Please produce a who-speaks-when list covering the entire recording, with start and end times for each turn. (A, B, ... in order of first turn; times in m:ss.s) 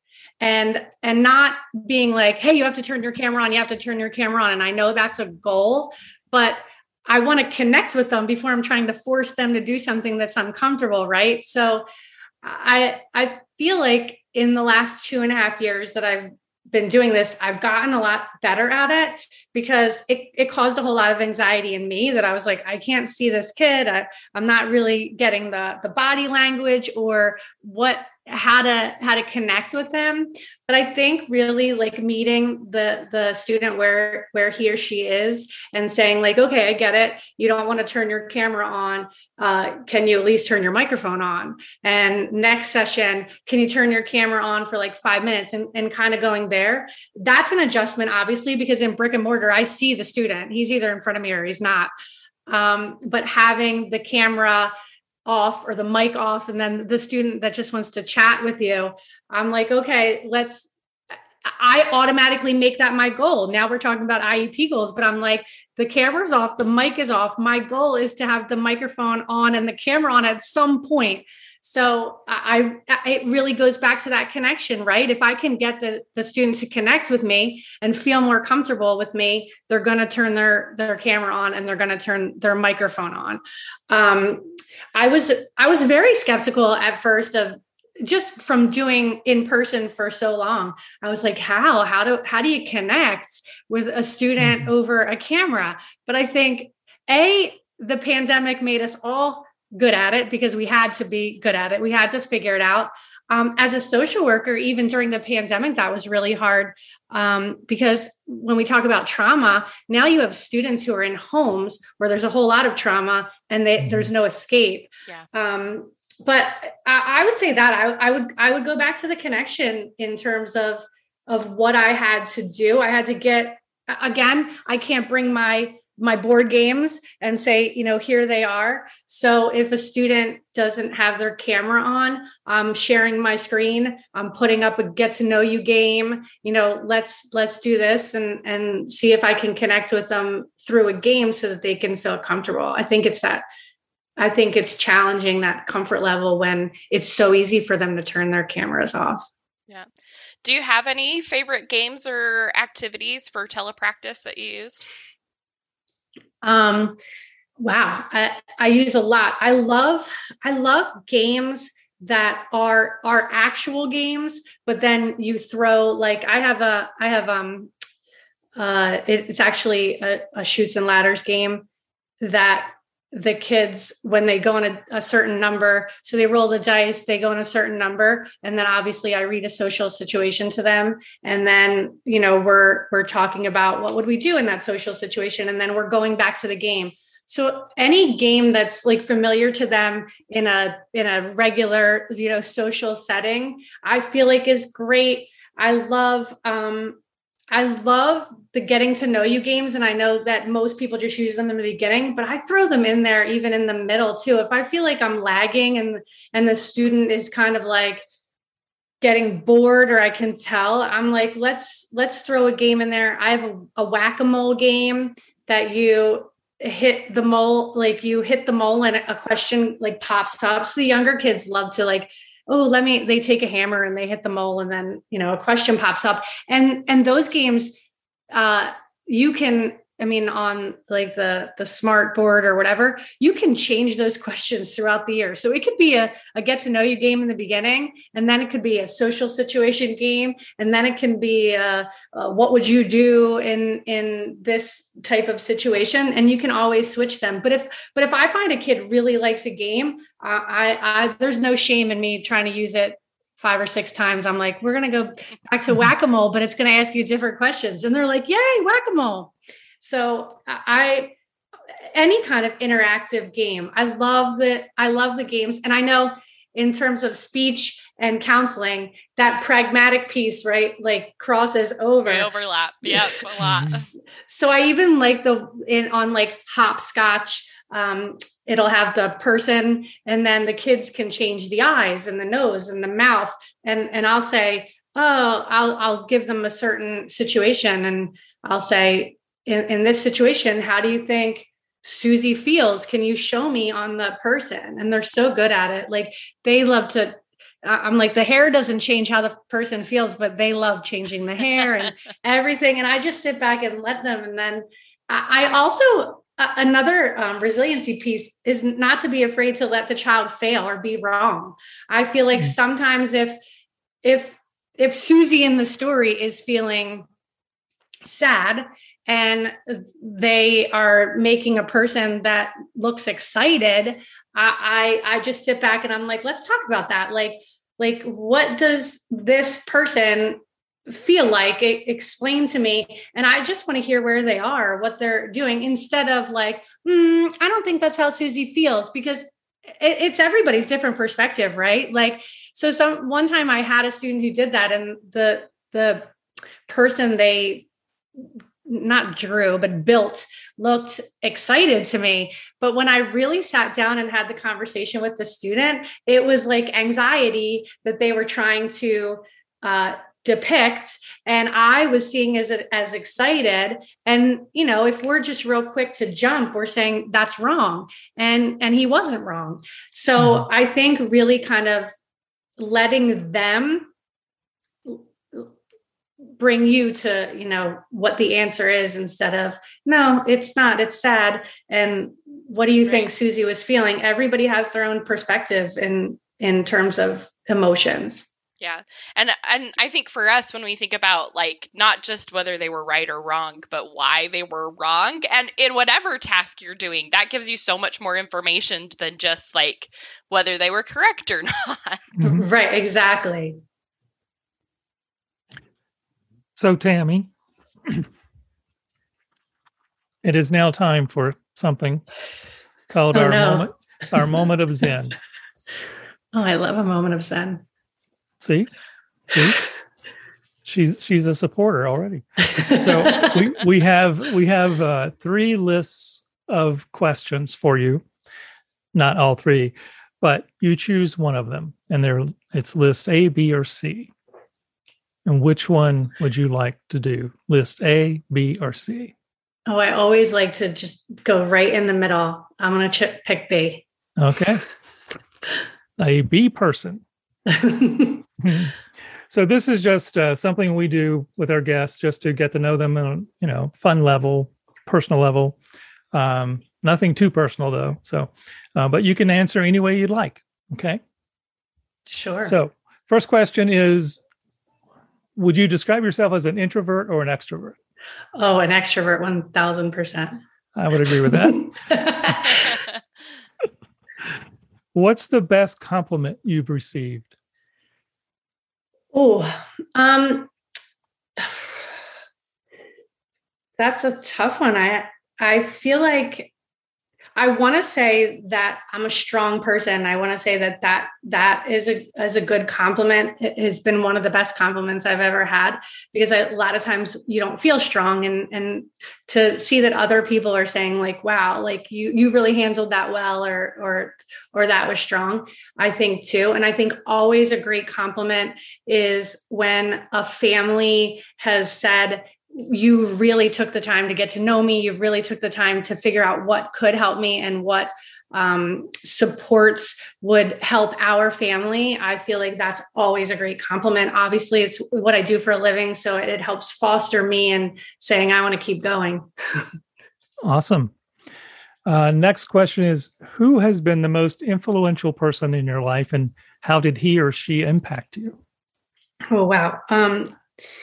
0:00.4-0:11.8 A
0:12.4-0:51.9 A
0:52.5-0:54.7 A
0:55.2-1:00.7 A
1:01.4-2:23.4 A
1:34.4-1:34.7 B
1:53.8-1:54.1 B
2:24.2-2:29.2 A
2:30.4-2:34.9 C
2:36.4-2:37.0 A
2:37.6-2:47.7 A
2:48.6-2:51.6 A
2:52.2-3:17.0 A
3:17.5-3:28.0 A
3:29.0-3:47.7 A
3:48.3-4:21.1 A
4:21.9-5:13.4 A
4:32.0-4:33.9 C
4:33.4-4:33.8 B
5:14.0-5:17.1 A
5:18.0-5:39.2 A
5:39.8-5:46.1 A
5:46.7-5:47.6 A
5:48.2-6:11.9 A
6:10.2-6:10.4 B
6:12.6-6:13.9 A
6:14.8-6:15.5 A
6:16.4-6:28.2 A
6:22.8-6:23.1 C
6:28.6-6:42.1 C
6:42.2-6:42.4 B
6:42.2-6:43.6 A
6:46.6-6:47.3 B
6:50.2-6:52.0 B
6:52.9-6:55.2 B
6:53.1-6:53.7 A
6:56.3-6:57.6 A
6:58.4-6:58.7 B
6:59.3-6:59.6 B
7:00.6-7:08.0 B
7:02.6-7:03.4 A
7:08.9-7:14.1 B
7:15.2-7:19.1 B
7:19.7-7:23.8 A
7:24.2-7:24.6 B
7:26.0-7:27.0 B
7:27.5-7:28.2 A
7:28.4-7:28.7 B
7:29.3-7:35.6 B
7:36.1-7:41.0 B
7:42.1-7:42.5 A
7:42.4-7:44.2 B
7:45.4-7:47.8 B
7:48.4-7:50.4 A
7:50.7-7:51.7 B
7:51.3-7:52.8 A
7:54.9-7:57.3 B
7:59.1-8:00.5 A
8:01.4-8:01.8 A
8:03.8-8:06.5 A
8:07.4-8:49.6 A
8:50.4-8:50.9 B
8:51.8-8:58.4 B
8:59.3-9:00.3 A